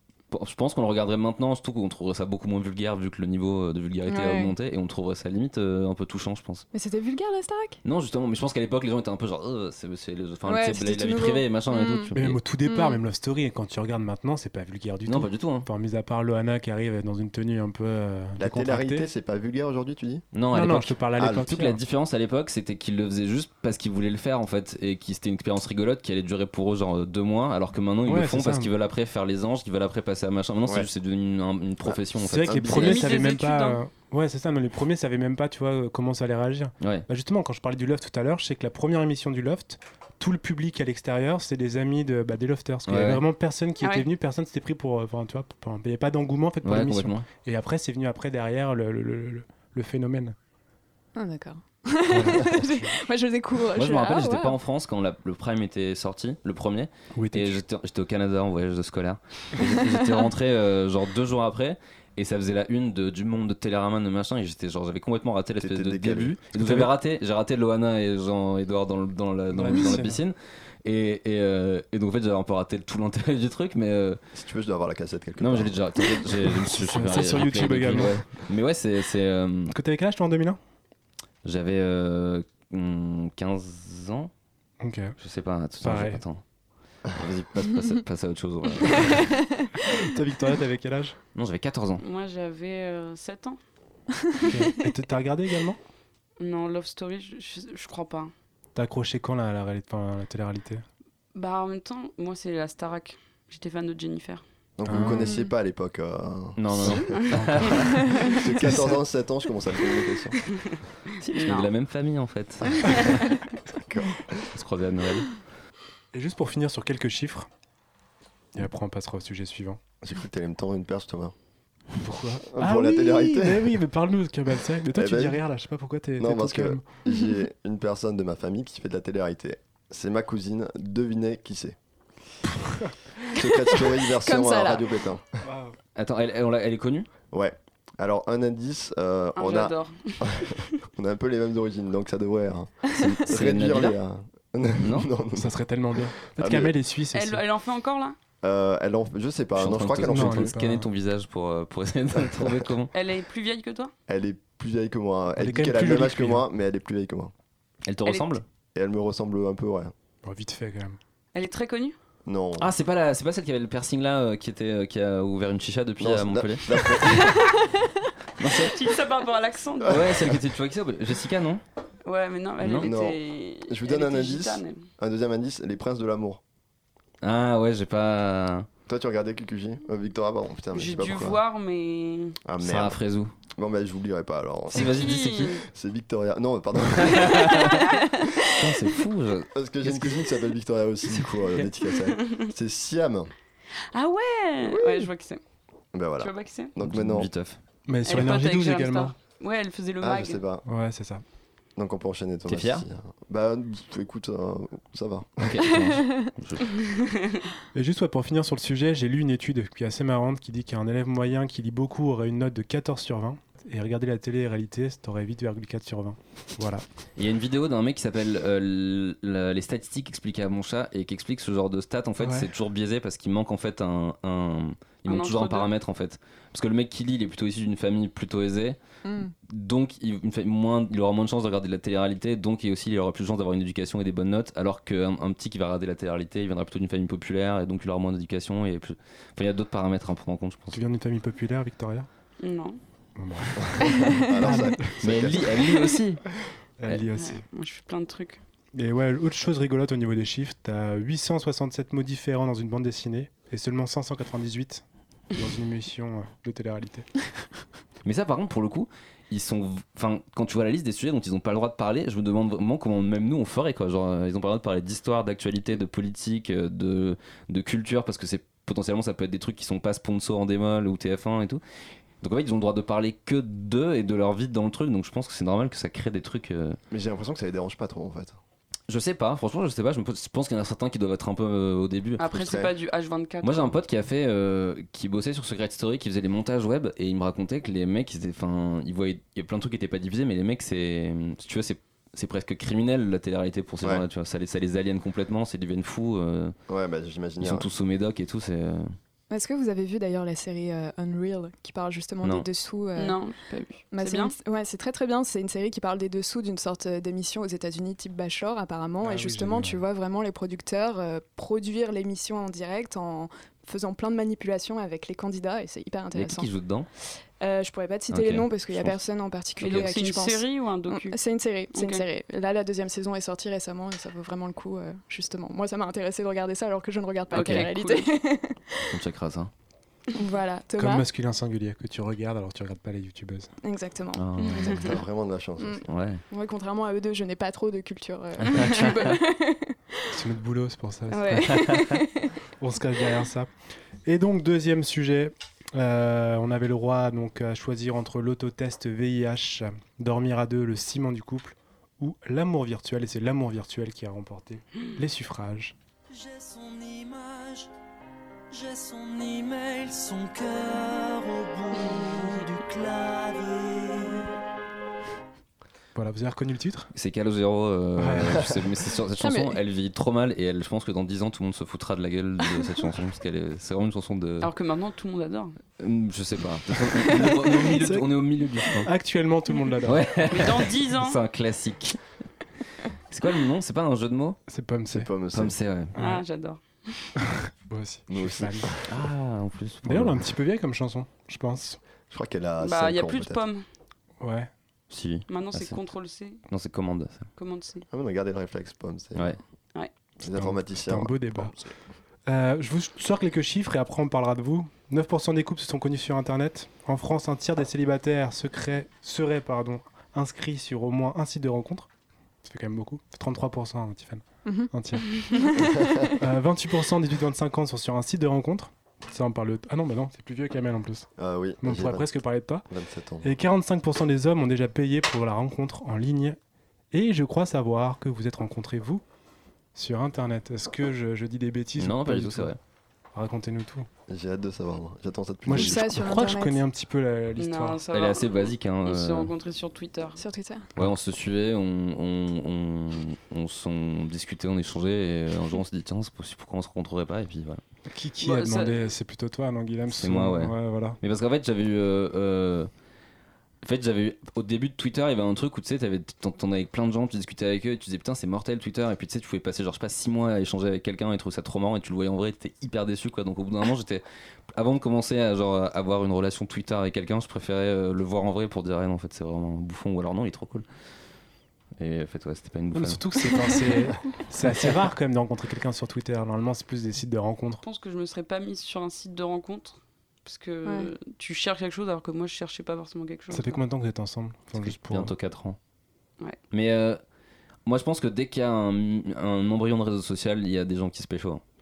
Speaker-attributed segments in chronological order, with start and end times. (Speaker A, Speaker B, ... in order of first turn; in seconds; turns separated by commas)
Speaker A: 0.3-6.7, Speaker B: 4.1-4.5, Speaker B: 6.7-7.8, Speaker A: 7.8-12.4, Speaker B: 10.5-12.1, Speaker C: 12.2-19.1, Speaker B: 12.6-13.0, Speaker A: 15.1-15.7, Speaker D: 18.4-20.3, Speaker A: 20.3-33.1, Speaker C: 20.5-21.8, Speaker D: 21.2-21.4, Speaker C: 28.1-28.7, Speaker D: 31.9-33.0, Speaker C: 32.2-50.4, Speaker E: 32.7-33.8, Speaker A: 36.8-37.1, Speaker A: 42.9-43.2, Speaker E: 43.8-44.1, Speaker A: 46.6-47.3, Speaker B: 51.2-54.6, Speaker C: 52.1-53.0, Speaker A: 53.7-74.2, Speaker C: 57.1-57.6, Speaker D: 65.6-66.4, Speaker C: 66.5-66.9, Speaker C: 69.5-70.2, Speaker D: 74.3-75.8, Speaker A: 75.4-79.8, Speaker C: 76.6-78.4, Speaker C: 79.7-80.6, Speaker A: 81.4-84.3, Speaker C: 84.8-85.2, Speaker A: 85.2-86.4, Speaker C: 85.8-86.2, Speaker A: 87.1-89.4, Speaker C: 89.8-91.2, Speaker A: 91.3-92.0, Speaker E: 92.0-93.6, Speaker C: 94.4-95.8, Speaker E: 96.4-98.3, Speaker C: 98.8-100.8, Speaker E: 101.3-104.4, Speaker D: 104.8-107.2, Speaker C: 104.9-105.3, Speaker B: 104.9-105.5, Speaker A: 106.6-108.0, Speaker E: 106.8-108.4, Speaker C: 107.3-109.0, Speaker D: 108.2-110.4, Speaker E: 110.7-111.7, Speaker A: 111.3-113.4, Speaker D: 113.7-114.5, Speaker A: 114.5-115.4, Speaker C: 116.1-117.5, Speaker C: 118.5-119.8, Speaker D: 120.0-121.3, Speaker C: 122.0-126.8, Speaker D: 122.5-123.8, Speaker D: 124.9-125.4, Speaker D: 126.2-131.8, Speaker D: 133.3-135.4, Speaker B: 134.1-135.0, Speaker C: 135.4-135.8, Speaker A: 136.0-137.1, Speaker D: 137.3-145.5, Speaker E: 139.4-140.7, Speaker A: 143.2-144.0, Speaker A: 144.8-145.1, Speaker C: 145.3-147.4, Speaker D: 146.3-146.7, Speaker E: 147.1-148.2, Speaker D: 148.4-150.5, Speaker A: 149.6-152.9, Speaker C: 150.0-150.9, Speaker D: 152.2-152.6, Speaker E: 152.9-153.9, Speaker D: 154.1-157.3, Speaker C: 155.4-156.4, Speaker A: 157.9-158.4, Speaker E: 158.1-158.4, Speaker D: 158.8-159.9, Speaker C: 160.2-161.0, Speaker E: 161.3-161.9, Speaker D: 162.3-162.7, Speaker A: 162.6-167.2, Speaker D: 166.0-167.4, Speaker A: 168.4-168.8, Speaker E: 168.4-170.2, Speaker A: 169.8-171.6, Speaker E: 172.1-174.8, Speaker A: 172.6-172.9, Speaker D: 172.8-176.4, Speaker A: 177.2-178.7, Speaker D: 178.9-181.4, Speaker E: 180.7-182.4, Speaker D: 182.4-183.0, Speaker A: 182.6-183.3, Speaker D: 183.6-187.7, Speaker A: 184.7-185.6, Speaker E: 184.7-185.6, Speaker A: 187.0-187.8, Speaker A: 188.5-190.2, Speaker D: 189.5-193.3, Speaker A: 191.1-191.7, Speaker E: 192.1-192.5, Speaker E: 193.9-195.4, Speaker D: 194.6-195.1, Speaker D: 195.9-197.3, Speaker E: 196.2-196.7, Speaker A: 196.8-197.6, Speaker C: 197.9-199.1, Speaker E: 198.1-200.4, Speaker D: 200.0-200.6, Speaker C: 200.7-201.2, Speaker D: 201.8-205.4, Speaker A: 202.5-202.8, Speaker A: 205.4-206.8, Speaker E: 207.0-207.4, Speaker C: 207.7-216.8, Speaker A: 217.2-228.8, Speaker C: 222.2-222.5, Speaker E: 225.1-225.7, Speaker B: 229.1-229.3, Speaker A: 229.5-240.8, Speaker C: 240.7-242.1, Speaker E: 242.4-242.8, Speaker C: 243.2-245.0, Speaker D: 243.7-245.7, Speaker A: 245.0-246.2, Speaker C: 246.8-247.4, Speaker E: 247.2-248.4, Speaker C: 248.7-257.2, Speaker A: 258.1-271.6, Speaker A: 272.2-276.8, Speaker D: 276.9-278.4, Speaker A: 278.9-282.6, Speaker E: 282.2-283.8, Speaker D: 282.4-282.7, Speaker A: 283.4-296.6, Speaker D: 296.7-297.7, Speaker A: 297.4-298.9, Speaker B: 299.3-303.2, Speaker E: 303.0-304.4, Speaker B: 303.9-316.5, Speaker C: 309.0-309.8, Speaker A: 316.1-316.9, Speaker B: 317.1-328.9, Speaker A: 318.1-318.9, Speaker A: 319.6-319.9, Speaker E: 319.6-321.2, Speaker E: 321.7-322.1, Speaker A: 327.3-327.7, Speaker E: 327.3-328.1, Speaker A: 328.9-329.5, Speaker B: 330.1-331.1, Speaker C: 330.8-333.5, Speaker B: 333.6-335.0, Speaker A: 334.2-335.0, Speaker E: 334.4-334.8, Speaker D: 334.6-335.8, Speaker B: 335.6-339.8, Speaker A: 335.9-336.2, Speaker A: 338.4-339.2, Speaker C: 340.1-341.6, Speaker B: 341.1-342.3, Speaker C: 342.6-343.5, Speaker C: 344.1-355.8, Speaker F: 356.1-357.7, Speaker F: 358.5-364.3, Speaker C: 365.9-366.9, Speaker A: 366.9-374.5, Speaker C: 368.0-368.6, Speaker B: 369.2-369.6, Speaker E: 374.4-375.6, Speaker A: 375.8-378.9, Speaker C: 377.7-380.4, Speaker A: 379.8-382.1, Speaker E: 380.3-381.2, Speaker A: 383.1-384.4, Speaker C: 384.5-385.2, Speaker D: 384.9-385.6, Speaker A: 385.3-386.0, Speaker C: 386.0-386.2, Speaker E: 386.0-387.2, Speaker C: 387.6-388.8, Speaker A: 388.1-390.3, Speaker C: 389.8-391.8, Speaker D: 392.1-393.4, Speaker E: 392.6-393.6, Speaker C: 394.2-394.5, Speaker A: 394.9-395.8, Speaker E: 395.3-396.4, Speaker A: 396.5-397.3, Speaker E: 397.4-397.9, Speaker D: 397.9-399.4, Speaker D: 400.2-401.7, Speaker C: 400.3-401.6, Speaker C: 402.3-411.9, Speaker C: 412.4-415.3, Speaker B: 415.2-416.1, Speaker D: 415.7-416.1, Speaker C: 416.2-421.1, Speaker D: 421.2-422.1, Speaker C: 421.6-422.7, Speaker D: 422.7-423.3, Speaker C: 423.2-426.4, Speaker C: 426.9-429.0, Speaker C: 429.8-432.5, Speaker A: 431.8-432.6, Speaker C: 433.1-433.9, Speaker D: 434.1-435.8, Speaker C: 435.5-437.9, Speaker B: 435.5-436.6, Speaker E: 437.4-440.2, Speaker A: 437.9-439.3, Speaker B: 440.2-440.7, Speaker A: 440.8-447.6, Speaker C: 447.9-451.0, Speaker E: 448.2-448.9, Speaker A: 450.0-452.7, Speaker A: 453.6-470.6, Speaker A: 471.8-473.4, Speaker C: 472.7-477.6, Speaker E: 477.6-483.6, Speaker B: 480.6-480.9, Speaker C: 483.3-485.1, Speaker A: 484.6-485.6, Speaker A: 486.5-487.0, Speaker A: 487.7-491.4